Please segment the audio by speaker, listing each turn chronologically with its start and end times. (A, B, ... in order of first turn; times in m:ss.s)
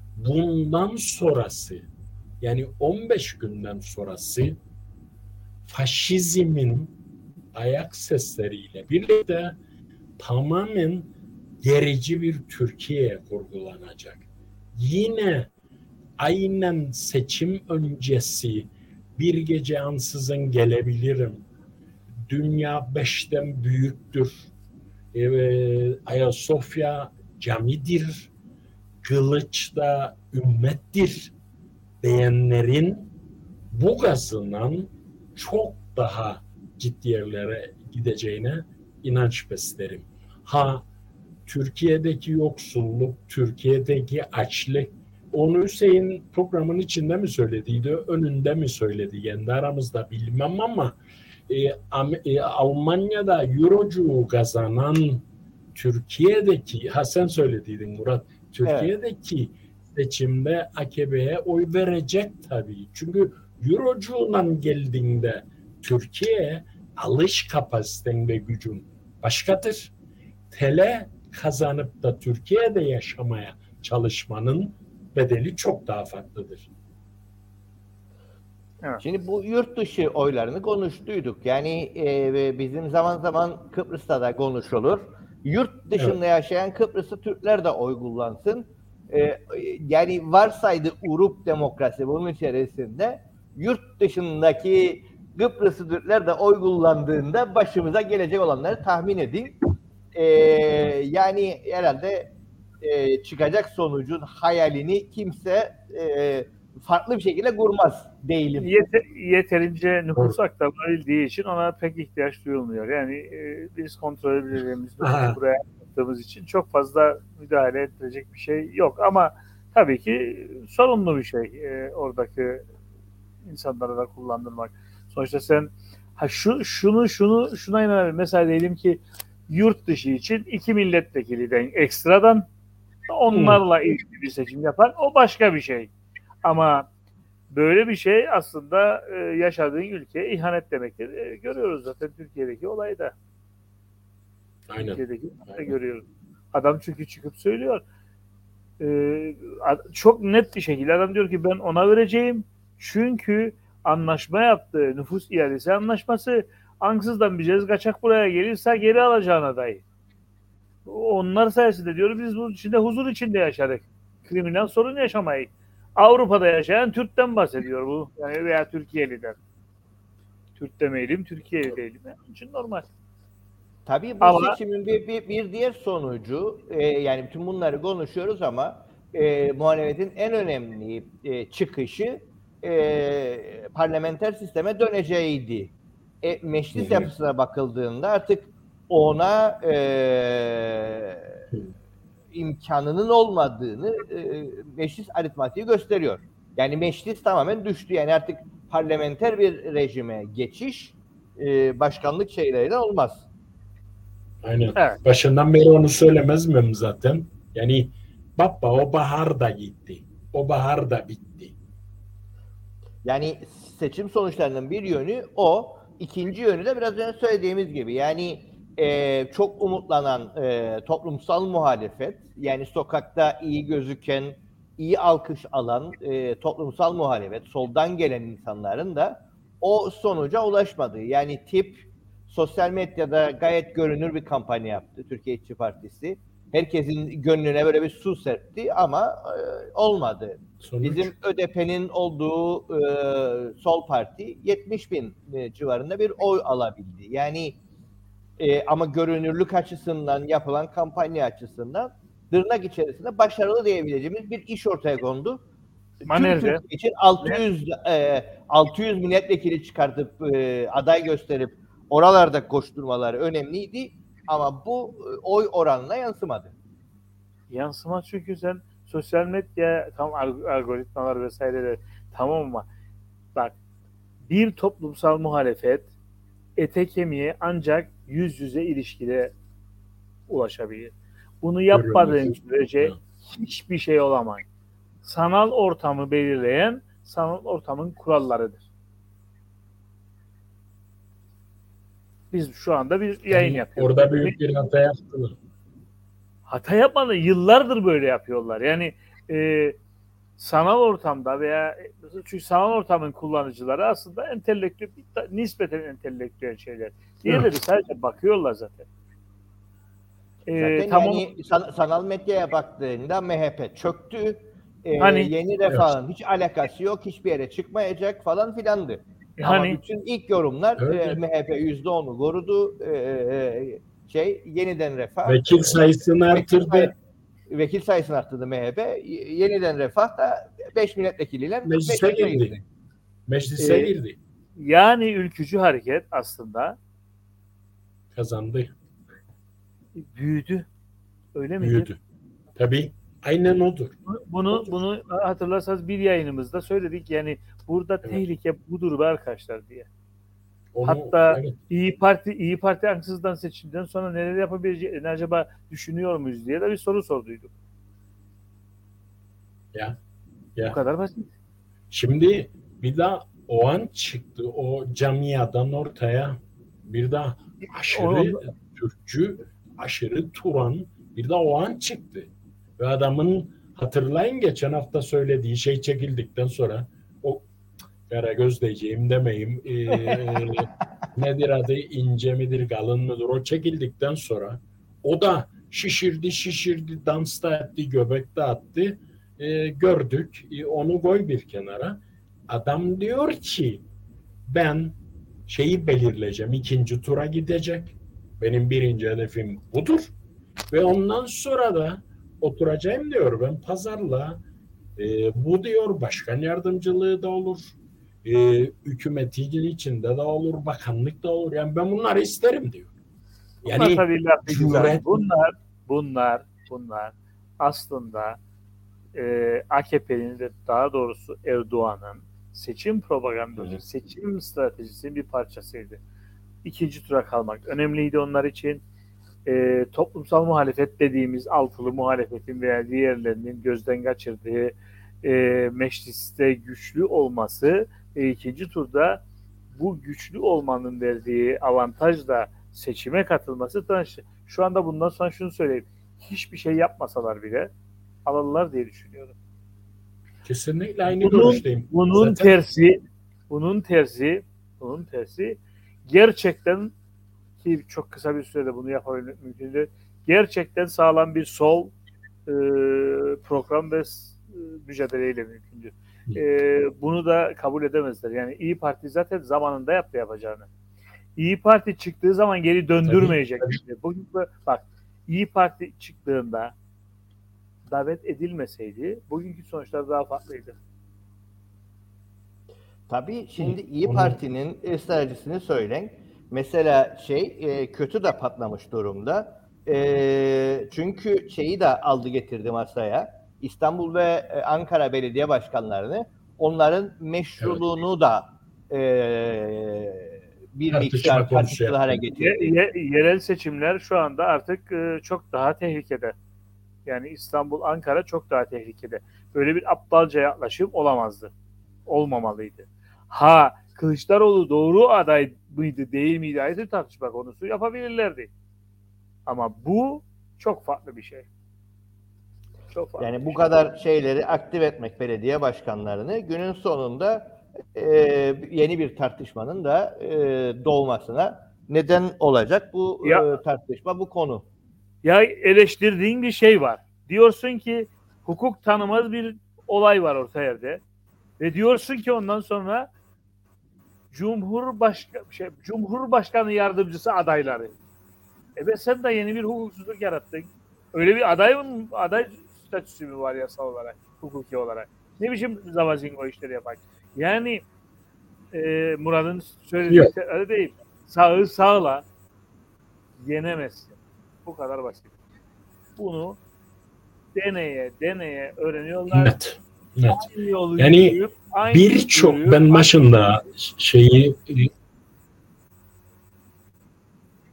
0:00.2-0:01.9 A
0:02.4-0:04.6 A
0:05.7-0:06.9 A
0:07.5-0:09.6 A
0:10.2-0:11.1 A
0:11.6-0:14.2 A
0:14.8-0:15.5 A
0:16.2-0:21.4 A
0:22.3-0:24.5 A
0:25.1-0:28.3 A
0:29.0-0:31.3 A
0:32.0-0:33.1 A
0:33.7-0:40.8 A
0:41.5-0:51.0 A
0:51.5-1:09.9 A
0:58.6-0:58.9 B
1:10.5-1:16.7 A
1:19.0-1:39.6 B
1:40.1-1:48.7 B
1:48.6-2:02.7 C
1:55.0-1:55.4 A
2:03.4-2:12.5 C
2:13.1-2:15.9 C
2:13.3-2:13.6 A
2:16.4-2:16.9 C
2:17.5-2:23.1 C
2:24.7-2:25.7 A
2:24.8-2:27.8 C
2:28.8-2:39.8 C
2:40.9-2:49.4 C
2:50.6-2:52.8 C
2:53.9-3:11.3 B
2:54.2-2:54.6 C
3:06.8-3:07.1 A
3:12.3-3:23.3 B
3:24.4-3:31.6 A
3:33.0-4:07.6 B
4:00.6-4:01.1 A
4:08.4-4:15.4 B
4:16.0-4:26.5 B
4:16.1-4:16.6 C
4:27.5-4:32.7 C
4:34.3-4:35.9 C
4:36.6-4:39.3 C
4:40.3-4:44.5 C
4:41.7-4:43.0 A
4:45.0-4:48.6 C
4:52.3-4:54.4 C
4:53.3-4:55.4 A
4:56.5-4:59.8 C
5:00.4-5:08.9 C
5:10.5-5:11.3 C
5:10.6-5:27.0 B
5:15.0-5:15.3 C
5:19.4-5:19.8 C
5:20.8-5:21.2 A
5:25.2-5:26.9 A
5:27.5-5:32.6 B
5:31.6-5:32.5 A
5:33.3-5:34.2 A
5:33.6-5:33.9 C
5:34.6-5:36.8 C
5:38.1-5:38.7 A
5:40.0-5:40.7 C
5:41.4-5:41.9 C
5:41.6-5:42.0 A
5:42.6-5:44.0 A
5:44.1-5:49.9 C
5:50.7-5:51.6 A
5:50.8-5:57.5 C
6:00.7-6:01.3 C
6:01.9-6:17.5 A
6:07.6-6:08.4 C
6:18.1-6:33.8 A
6:19.9-6:20.4 B
6:34.5-6:40.1 A
6:40.7-6:44.4 A
6:45.0-6:52.9 A
6:53.6-6:55.1 A
6:53.7-6:58.4 C
6:59.2-7:06.0 C
7:06.6-7:08.8 C
7:09.5-7:19.2 C
7:19.7-7:27.7 C
7:28.3-7:29.4 C
7:30.4-7:32.6 A
7:31.1-7:36.9 C
7:37.6-7:41.9 C
7:42.5-7:50.7 C
7:51.4-7:56.7 C
7:53.0-7:53.8 A
7:57.9-8:00.8 C
8:03.1-8:22.7 B
8:03.6-8:04.4 A
8:20.9-8:22.2 A
8:22.4-8:26.4 C
8:27.1-8:31.5 C
8:32.1-8:38.5 C
8:39.5-8:41.5 C
8:42.9-8:43.7 C
8:43.2-8:54.7 B
8:55.2-9:01.0 C
9:01.6-9:03.1 C
9:04.3-9:08.0 C
9:08.8-9:17.8 C
9:18.7-9:22.2 C
9:23.4-9:25.3 C
9:26.2-9:26.6 C
9:27.6-9:29.5 C
9:29.3-9:30.5 A
9:30.3-9:33.2 C
9:31.0-9:31.4 A
9:31.9-9:34.9 A